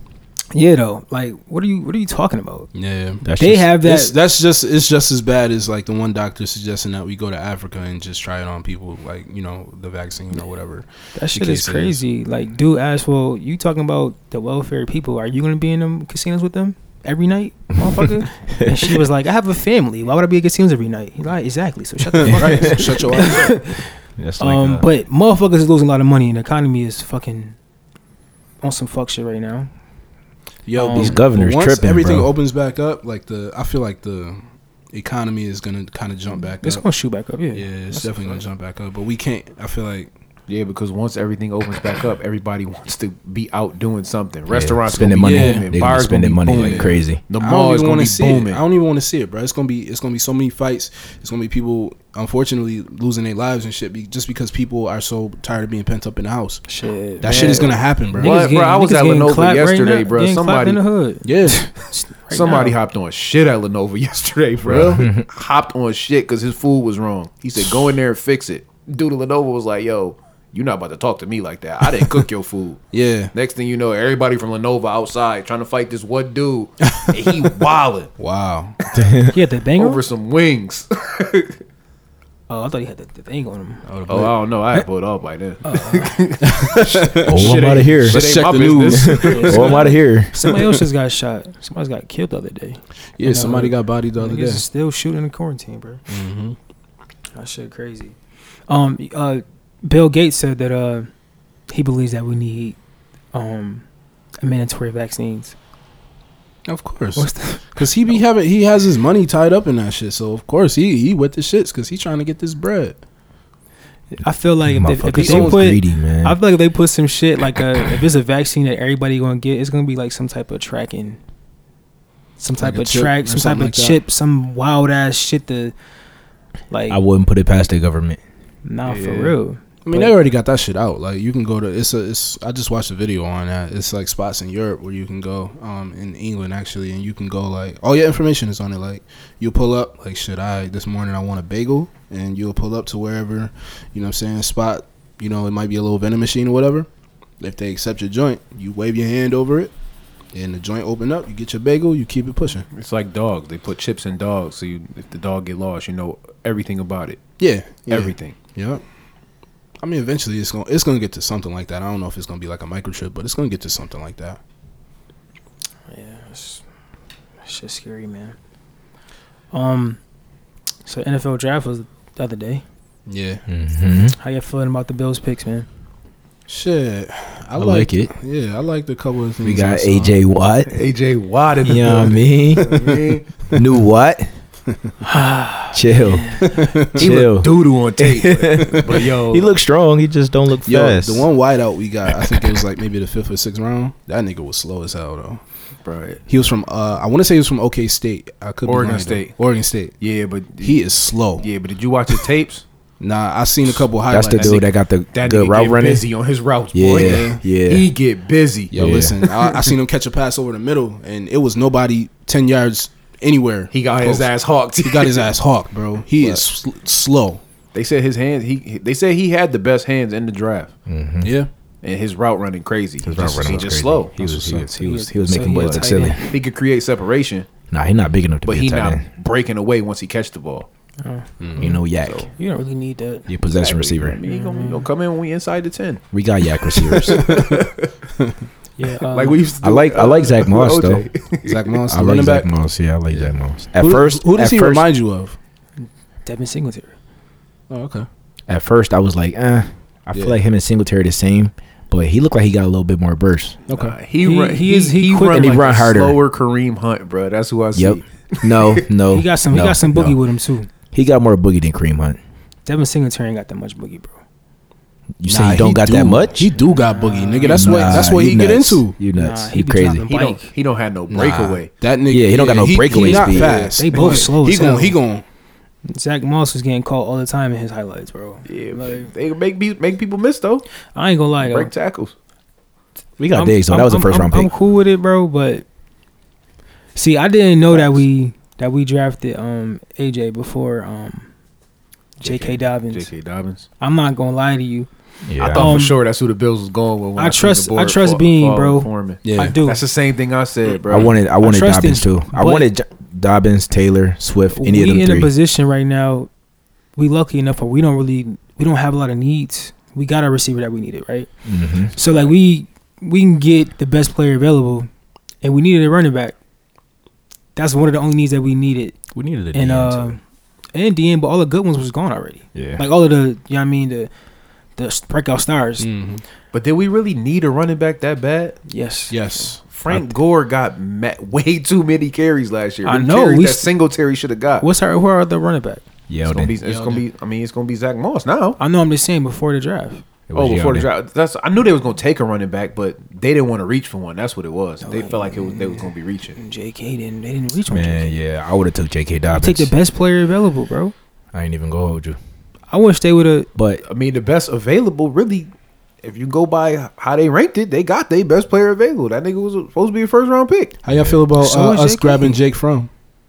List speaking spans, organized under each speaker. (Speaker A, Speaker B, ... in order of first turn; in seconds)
Speaker A: 0.5-2.7, 3.4-4.2, 11.1-23.9, 24.4-27.6, 28.6-29.7, 30.8-31.2, 36.6-38.4, 56.7-62.8, 79.3-80.0, 82.5-83.8, 85.6-86.2, 89.2-96.0, 97.3-98.2, 98.7-101.1, 101.7-102.8, 103.3-103.8, 104.4-105.5, 107.2-107.9, 114.1-121.2, 122.4-125.7, 126.7-127.0, 128.7-130.2, 165.9-166.6, 167.4-168.3, 169.5-170.0, 170.8-172.6, 174.2-175.7, 185.0-186.7, 224.8-226.4, 231.0-231.8, 232.4-233.3, 234.3-234.9, 238.8-239.4, 246.3-246.9, 254.2-255.6, 259.1-260.7, 262.7-264.1, 266.6-268.1, 269.2-270.5, 272.9-275.0, 275.9-279.1, 280.9-281.7, 283.3-285.6, 287.0-291.3, 292.2-293.1, 293.8-294.9, 295.5-296.0, 297.2-299.8, 301.4-302.7, 304.6-306.3, 307.0-311.3, 312.0-314.9, 315.4-316.4, 317.6-319.0, 319.5-320.2, 320.7-324.1, 324.8-325.9, 328.7-329.2, 332.9-333.7, 334.6-335.8, 338.6-340.0, 344.8-348.2, 349.3-350.9, 352.7-353.5, 361.4-362.4
Speaker B: 2.7-3.2, 3.8-12.0, 22.1-23.6, 30.7-36.8, 37.5-40.1, 45.2-45.7, 46.5-56.6, 57.2-58.4, 61.2-61.7, 64.7-65.0, 72.9-73.3, 78.2-78.8, 83.9-84.4, 86.5-89.8, 93.2-94.7, 96.1-96.6, 106.7-113.0, 115.1-115.7, 122.6-124.0, 129.8-146.9, 147.4-149.7, 150.3-152.7, 157.4-158.8, 159.8-164.4, 173.1-173.4, 176.5-180.1, 186.4-187.1, 190.7-195.4, 196.3-199.9, 200.6-201.4, 203.0-204.6, 206.9-207.4, 208.7-214.3, 214.8-217.4, 221.2-221.5, 224.2-224.7, 231.4-231.7, 237.1-237.5, 241.5-242.5, 243.1-245.4, 247.7-248.1, 250.1-250.4, 253.7-254.0, 265.3-269.0, 271.1-275.2, 299.2-299.6, 325.8-326.2, 329.1-329.6, 336.6-337.0, 360.8-362.9
Speaker C: 3.2-3.7, 18.0-19.0, 22.2-23.1, 24.2-24.9, 30.9-32.3, 44.5-47.2, 64.9-65.3, 78.9-79.3, 87.3-90.4, 114.7-116.4, 126.9-128.2, 173.5-174.2, 177.6-178.1, 179.4-180.8, 181.6-183.0, 183.5-184.3, 185.7-191.3, 204.1-206.1, 206.7-207.9, 208.7-209.2, 220.9-221.4, 223.0-226.2, 227.7-229.1, 231.6-232.3, 233.3-234.2, 236.1-237.2, 239.6-241.1, 241.9-244.9, 248.5-253.6, 255.3-256.2, 257.8-260.2, 260.9-262.2, 265.2-266.5, 267.4-270.1, 272.1-273.8, 283.2-284.5, 295.3-295.9, 300.9-305.3, 311.5-311.9, 319.1-320.2, 322.6-322.9, 329.9-330.1, 336.1-336.6, 340.3-340.9, 347.7-349.7, 351.3-352.2, 353.6-353.8, 360.9-361.2
Speaker D: 40.5-48.6, 57.2-60.8, 62.3-78.1, 79.8-81.5, 84.1-89.8, 128.9-129.3, 152.7-158.4, 180.7-183.5, 187.0-189.5, 195.8-196.2, 198.7-199.4, 200.0-200.8, 201.4-202.7, 203.7-209.7, 213.7-215.3, 216.1-216.5, 217.7-220.7, 221.8-224.2, 225.4-227.5, 228.5-230.7, 232.0-232.3, 233.5-236.1, 236.7-237.9, 239.1-241.8, 253.7-258.8, 270.1-271.7, 278.5-280.7, 281.4-282.1, 292.2-293.7, 295.4-301.1, 312.0-312.3, 326.5-328.6, 329.6-334.7, 336.3-338.6, 340.4-346.4, 353.9-355.5, 356.0-360.7